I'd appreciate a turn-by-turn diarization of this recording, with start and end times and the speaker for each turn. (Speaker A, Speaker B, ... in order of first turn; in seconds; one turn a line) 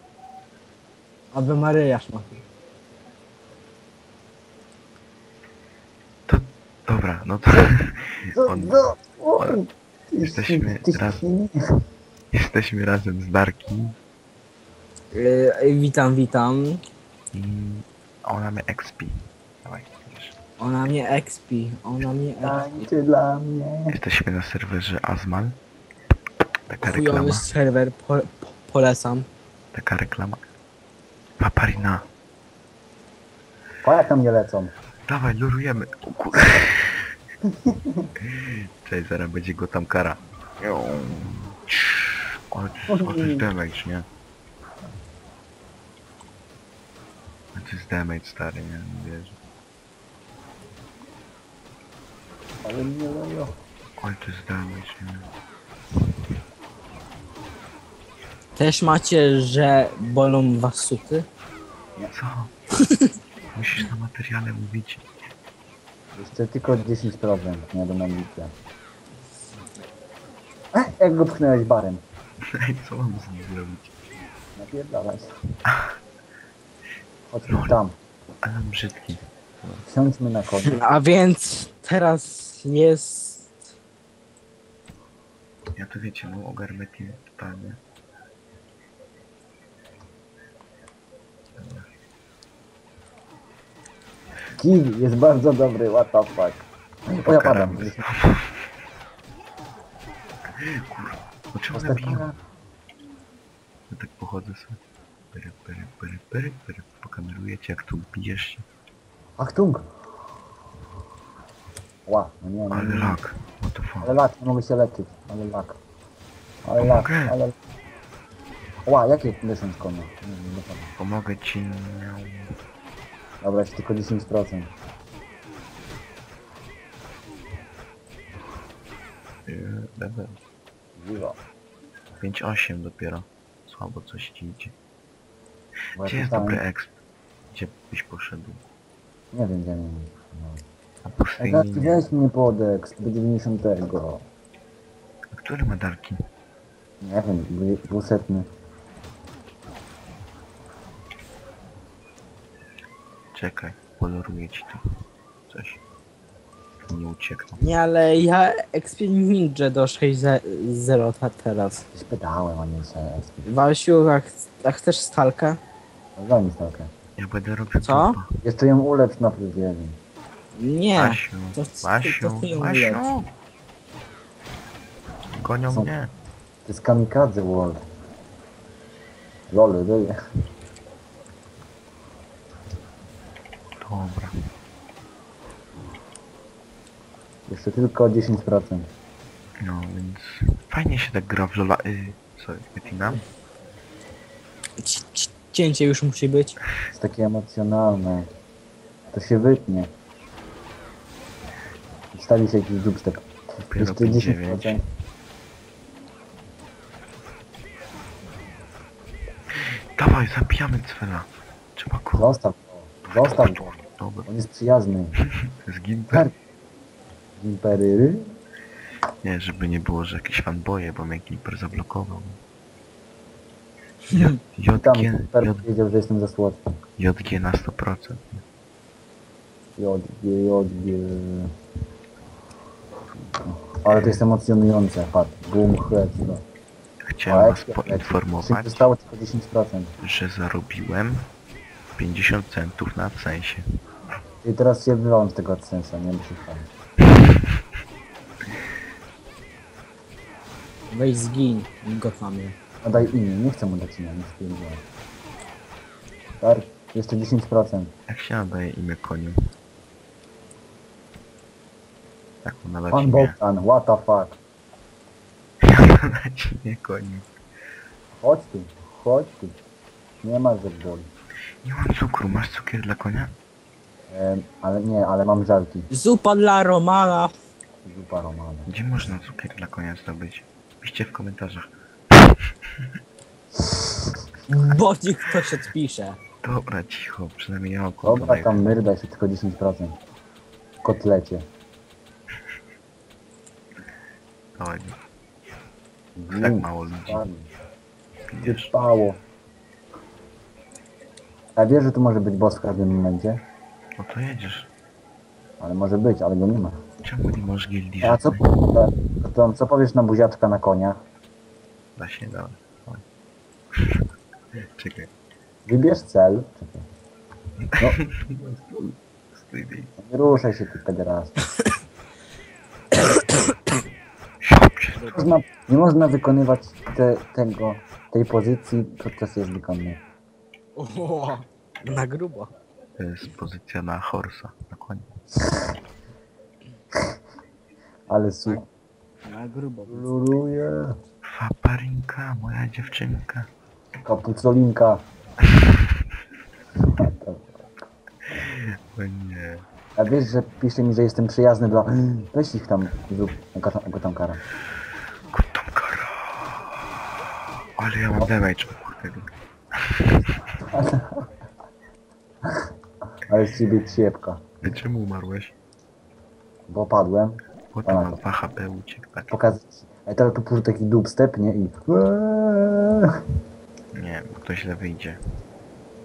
Speaker A: 1.3-2.4
Speaker B: 6.3-8.8
Speaker C: 8.3-11.6
Speaker B: 10.2-11.2
Speaker B: 12.3-14.0
Speaker A: 15.1-16.8
Speaker B: 17.3-20.3
Speaker A: 20.6-22.8
Speaker C: 22.4-24.0
Speaker B: 23.9-25.6
Speaker B: 26.7-27.5
Speaker A: 26.8-29.3
Speaker B: 29.7-30.4
Speaker B: 31.4-32.0
Speaker C: 33.8-34.7
Speaker B: 35.1-37.1
Speaker C: 37.7-38.1
Speaker B: 38.2-44.1
Speaker C: 42.9-43.5
Speaker B: 47.5-49.4
Speaker C: 52.6-53.5
Speaker B: 54.0-55.3
Speaker A: 58.6-61.3
Speaker B: 62.1-62.5
Speaker B: 63.5-65.1
Speaker C: 66.2-68.5
Speaker C: 70.7-72.0
Speaker B: 72.5-73.9
Speaker C: 74.6-75.2
Speaker B: 75.7-76.0
Speaker C: 77.3-78.0
Speaker B: 77.5-77.8
Speaker B: 78.4-79.8
Speaker C: 79.8-80.8
Speaker A: 80.7-83.5
Speaker B: 85.8-87.8
Speaker B: 91.6-91.9
Speaker C: 94.6-98.1
Speaker B: 97.3-98.5
Speaker B: 100.5-102.2
Speaker C: 101.7-102.3
Speaker B: 103.9-104.8
Speaker B: 105.3-108.7
Speaker C: 109.4-109.9
Speaker C: 112.1-113.2
Speaker B: 112.7-114.1
Speaker C: 114.0-115.8
Speaker C: 116.6-117.5
Speaker B: 116.8-117.4
Speaker C: 118.9-120.9
Speaker B: 121.0-122.5
Speaker C: 123.4-124.7
Speaker B: 129.5-130.4
Speaker C: 131.0-131.4
Speaker B: 132.2-134.7
Speaker C: 136.0-136.6
Speaker B: 136.0-136.9
Speaker B: 137.5-138.6
Speaker C: 139.3-140.6
Speaker B: 141.1-142.1
Speaker C: 141.4-144.2
Speaker B: 145.3-146.2
Speaker C: 147.0-148.5
Speaker B: 153.3-154.8
Speaker B: 155.5-155.8
Speaker B: 156.9-157.6
Speaker A: 157.6-161.8
Speaker C: 161.9-163.5
Speaker A: 163.5-165.6
Speaker C: 166.2-166.9
Speaker B: 167.2-168.3
Speaker A: 167.8-168.2
Speaker C: 168.4-170.0
Speaker A: 170.6-173.1
Speaker B: 171.0-173.3
Speaker B: 175.4-176.1
Speaker C: 176.7-177.8
Speaker C: 179.5-180.1
Speaker B: 183.8-184.3
Speaker C: 187.5-188.9
Speaker B: 189.6-193.2
Speaker A: 194.8-196.6
Speaker C: 196.9-198.3
Speaker C: 199.1-199.9
Speaker C: 202.1-203.2
Speaker B: 203.7-204.8
Speaker C: 203.8-204.8
Speaker B: 209.6-212.3
Speaker C: 212.2-215.2
Speaker B: 213.1-214.3
Speaker B: 215.6-216.3
Speaker C: 217.4-218.2
Speaker B: 219.2-222.4
Speaker B: 224.1-225.7
Speaker C: 224.8-226.6
Speaker B: 227.0-228.4
Speaker C: 229.8-231.5
Speaker C: 233.4-236.4
Speaker B: 233.9-234.2
Speaker B: 237.0-238.9
Speaker C: 237.3-239.9
Speaker B: 240.0-241.3
Speaker B: 242.0-243.7
Speaker C: 244.4-246.7
Speaker A: 250.9-252.6
Speaker C: 252.8-254.8
Speaker C: 256.4-257.9
Speaker B: 258.1-259.4
Speaker B: 262.4-263.4
Speaker C: 262.9-264.4
Speaker B: 265.6-267.3
Speaker C: 268.1-269.6
Speaker C: 270.2-271.1
Speaker B: 271.6-273.3
Speaker C: 274.1-275.9
Speaker A: 275.9-277.3
Speaker C: 277.8-278.7
Speaker B: 278.7-281.7
Speaker A: 284.5-286.2
Speaker B: 286.4-288.7
Speaker C: 288.0-290.0
Speaker C: 290.8-291.5
Speaker B: 294.6-295.0
Speaker C: 296.2-297.5
Speaker B: 296.3-297.3
Speaker B: 298.3-298.7
Speaker C: 298.4-299.2
Speaker C: 301.6-303.4
Speaker B: 304.0-304.7
Speaker C: 305.6-306.8
Speaker B: 307.0-308.5
Speaker C: 308.0-311.0
Speaker B: 312.0-313.0
Speaker B: 314.6-315.1
Speaker C: 315.7-316.9
Speaker B: 317.7-319.9
Speaker C: 320.0-321.5
Speaker B: 324.4-325.0
Speaker A: 324.9-325.3
Speaker C: 325.1-330.0
Speaker A: 330.8-332.5
Speaker B: 333.0-335.1
Speaker C: 338.1-338.6
Speaker A: 339.2-340.1
Speaker C: 339.9-340.9
Speaker B: 341.3-343.5
Speaker C: 344.0-345.0
Speaker B: 345.5-345.8
Speaker C: 347.0-347.8
Speaker B: 348.4-349.6
Speaker C: 350.0-354.4
Speaker B: 355.3-356.4
Speaker B: 357.8-359.3
Speaker B: 359.9-360.2
Speaker C: 360.7-361.1
Speaker C: 363.3-364.7
Speaker B: 364.6-365.6
Speaker C: 366.7-368.2
Speaker B: 367.7-369.4
Speaker C: 369.3-373.1
Speaker B: 373.9-375.2